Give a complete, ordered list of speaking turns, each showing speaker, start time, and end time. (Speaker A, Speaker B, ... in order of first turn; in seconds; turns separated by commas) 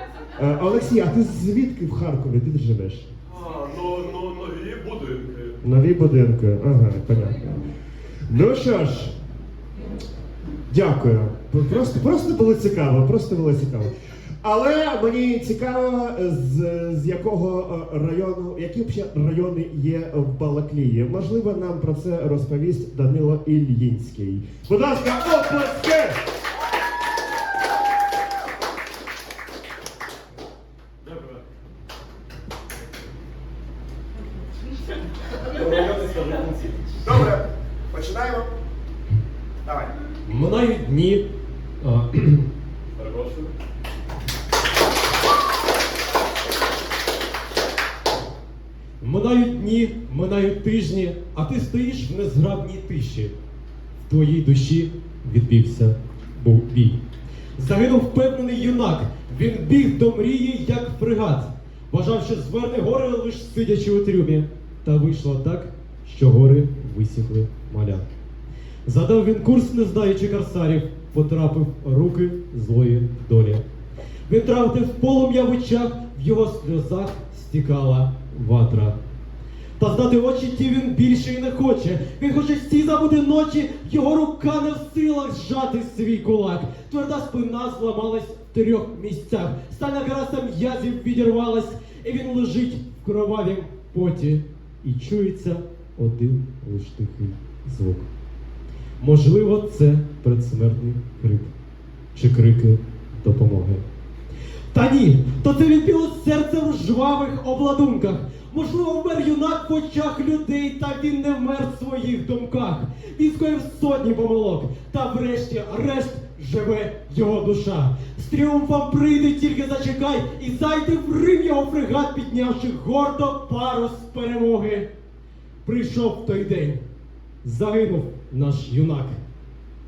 Speaker A: 0.3-3.1, Speaker B: 3.3-5.6, Speaker A: 5.6-7.5, Speaker A: 8.3-9.1, Speaker A: 10.7-26.2, Speaker B: 31.1-31.4, Speaker C: 35.5-36.8, Speaker A: 37.0-38.5, Speaker C: 40.3-41.2, Speaker C: 41.8-42.5, Speaker B: 43.0-43.5, Speaker C: 49.0-53.3, Speaker C: 54.0-57.0, Speaker C: 57.6-68.1, Speaker C: 68.9-73.6, Speaker C: 74.3-79.0, Speaker C: 79.8-98.1, Speaker C: 99.0-101.5, Speaker C: 102.1-103.8, Speaker C: 104.7-124.9, Speaker C: 125.7-126.8, Speaker C: 127.4-129.2